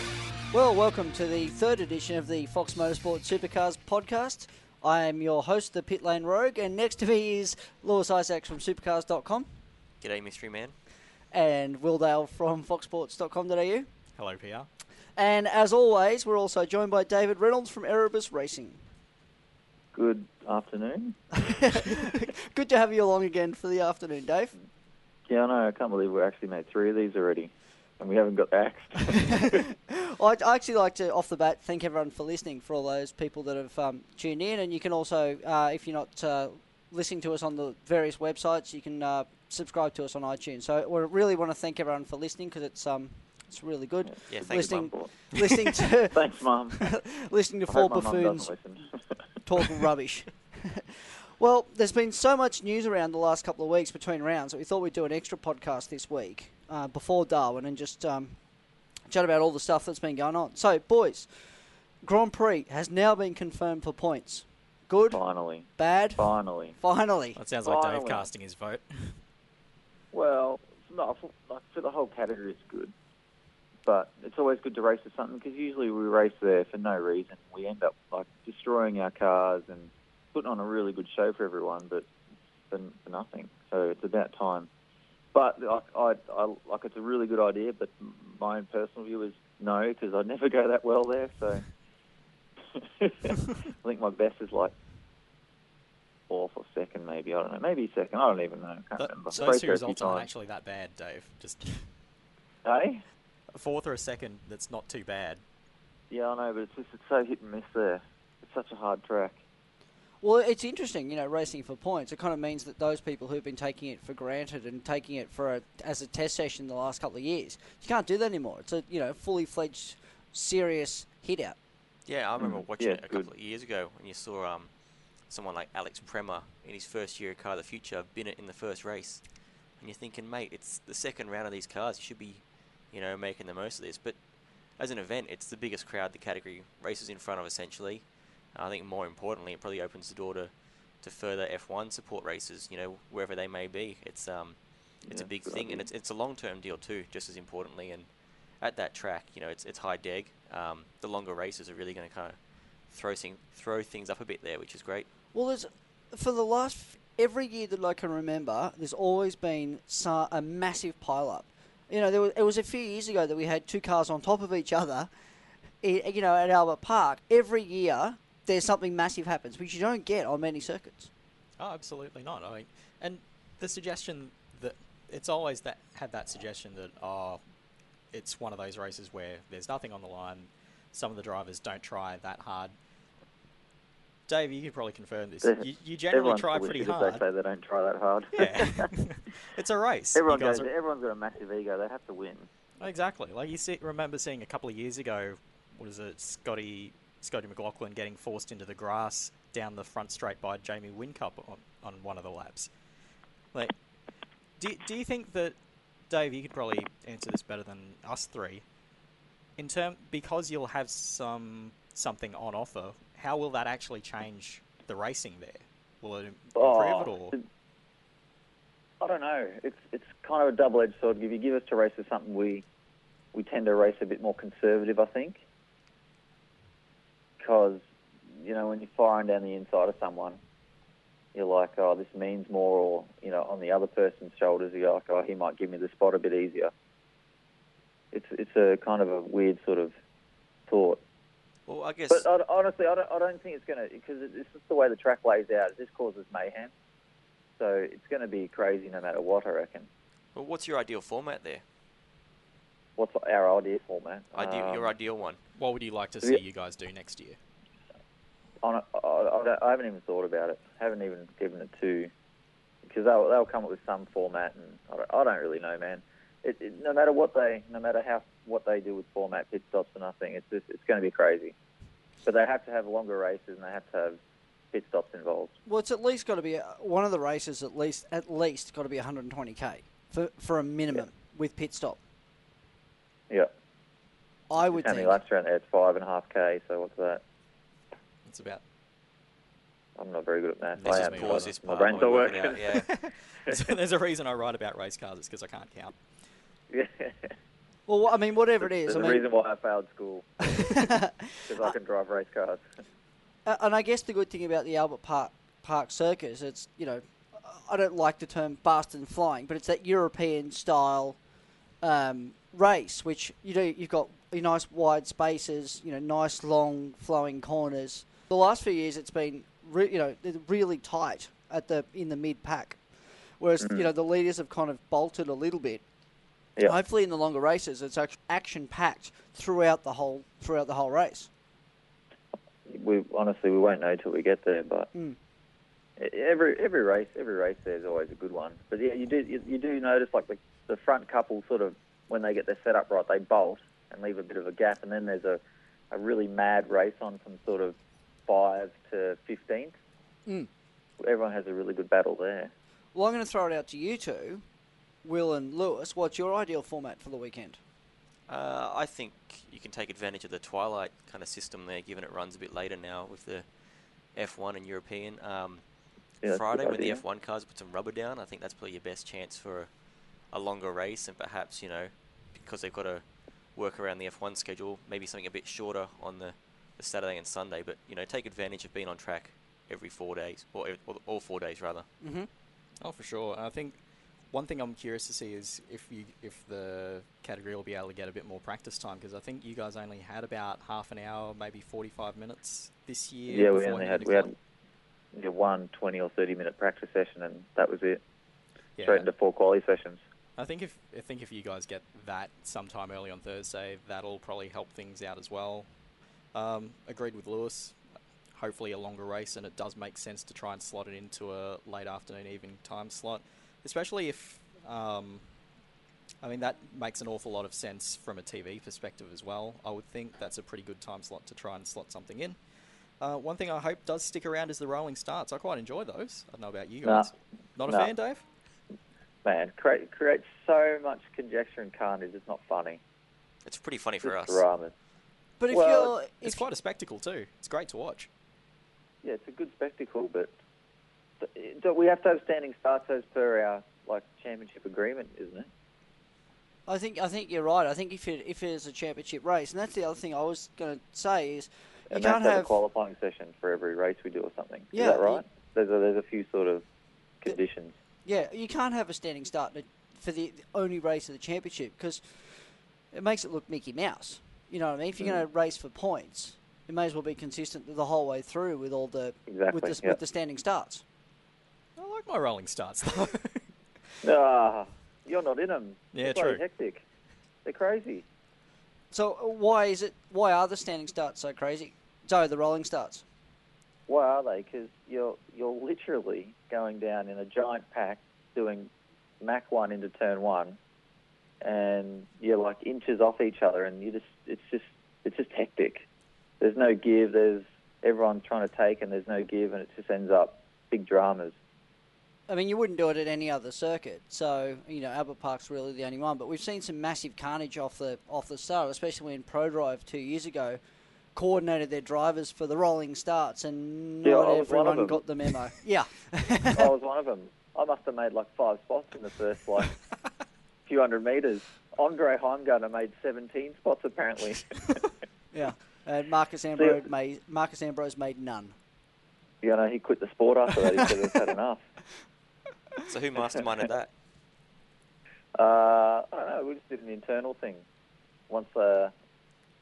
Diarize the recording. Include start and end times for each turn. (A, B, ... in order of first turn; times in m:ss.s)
0:00.5-0:09.6 A
0:10.0-0:10.8 B
0:11.3-0:13.9 A
0:14.2-0:14.7 C
0:15.2-0:18.8 A
0:19.9-0:21.2 D
0:21.4-0:24.5 A
0:25.3-0:29.6 D
0:29.4-0:48.5 A
0:44.3-0:45.0 B
0:44.4-0:45.1 D
0:46.1-0:47.0 D
0:47.7-0:48.9 D
0:49.4-0:50.8 A
0:51.4-0:58.4 A
0:59.1-1:05.2 A
1:05.1-1:06.7 D
1:05.8-1:07.4 A
1:07.4-1:09.2 C
1:07.6-1:08.2 D
1:10.1-1:12.9 D
1:13.8-1:22.1 D
1:22.7-1:24.7 D
1:25.3-1:31.7 D
1:32.8-1:34.7 D
1:36.3-1:40.3 D
1:39.0-1:41.9 C
1:42.6-1:43.0 D
1:43.5-1:45.4 C
1:46.1-1:49.4 D
1:50.2-2:01.6 A
2:02.0-2:04.7 B
2:02.4-2:03.3 D
2:05.3-2:14.2 B
2:14.7-2:28.1 B
2:25.0-2:25.8 D
2:28.6-2:35.1 B
2:35.3-2:45.1 A
2:45.8-2:51.1 A
2:51.6-2:57.4 C
2:58.1-3:02.7 C
3:04.3-3:07.2 C
3:05.4-3:08.9 D
3:08.3-3:10.7 C
3:10.1-3:12.5 D
3:12.8-3:22.7 C
3:24.6-3:25.5 C
3:26.1-3:28.6 C
3:29.6-3:37.4 C
3:36.6-3:37.4 D
3:39.0-3:42.6 D
3:43.3-3:45.4 D
3:47.4-3:47.8 D
3:48.4-3:50.4 D
3:51.3-3:56.7 D
3:58.1-3:59.9 D
4:00.7-4:01.0 D
4:01.7-4:02.2 B
4:02.1-4:06.7 D
4:07.6-4:09.9 D
4:10.3-4:11.6 B
4:13.0-4:14.9 D
4:14.3-4:15.4 B
4:15.6-4:17.4 C
4:18.6-4:22.1 D
4:22.8-4:31.5 D
4:32.2-4:34.2 D
4:34.7-4:35.6 D
4:35.6-4:42.0 A
4:44.5-4:45.2 A
4:44.7-4:47.2 D
4:48.2-4:48.6 C
4:50.0-4:52.8 D
4:50.7-4:56.0 C
4:50.8-4:52.9 B
4:56.7-4:57.3 D
4:57.9-4:59.3 A
4:58.6-5:00.6 D
5:00.5-5:01.7 A
5:01.4-5:02.6 D
5:03.4-5:11.2 A
5:11.8-5:25.8 A
5:23.6-5:23.8 D
5:26.6-5:31.3 A
5:32.7-5:34.9 D
5:36.0-5:45.4 D
5:45.9-5:47.8 D
5:48.3-5:49.7 D
5:51.0-5:52.5 D
5:52.9-5:54.4 A
5:55.0-5:57.6 A
5:58.3-6:03.5 B
6:04.1-6:05.6 B
6:06.2-6:07.0 D
6:06.2-6:09.7 B
6:10.3-6:21.8 B
6:22.0-6:22.3 A
6:22.8-6:34.3 C
6:33.3-6:34.3 D
6:35.1-6:38.0 D
6:38.8-6:39.0 C
6:38.8-6:40.0 D
6:40.4-6:45.7 C
6:46.3-6:47.8 C
6:48.3-6:55.2 C
6:56.2-7:02.4 C
7:03.0-7:08.2 C
7:06.8-7:07.1 D
7:09.2-7:12.8 D
7:13.4-7:14.4 B
7:14.0-7:14.7 D
7:15.4-7:16.4 A
7:15.5-7:15.9 D
7:16.2-7:18.1 C
7:19.0-7:20.3 D
7:21.2-7:25.5 D
7:26.7-7:32.6 A
7:31.9-7:36.6 D
7:34.7-7:35.2 A
7:37.2-7:37.7 D
7:38.0-7:50.8 A
7:49.3-7:50.0 D
7:51.8-7:54.0 C
7:54.0-7:56.8 D
7:55.9-7:56.4 C
7:57.4-7:58.0 D
7:58.9-8:03.0 A
8:03.9-8:08.7 D
8:09.2-8:10.6 D
8:11.4-8:15.8 D
8:16.4-8:21.3 D
8:22.3-8:30.6 A
8:31.1-8:36.7 A
8:34.0-8:35.0 D
8:36.5-8:39.8 D
8:40.6-8:44.9 D
8:45.3-8:48.5 A
8:49.4-8:51.6 D
8:52.8-8:53.9 B
8:55.4-8:57.6 D
8:58.3-8:58.9 D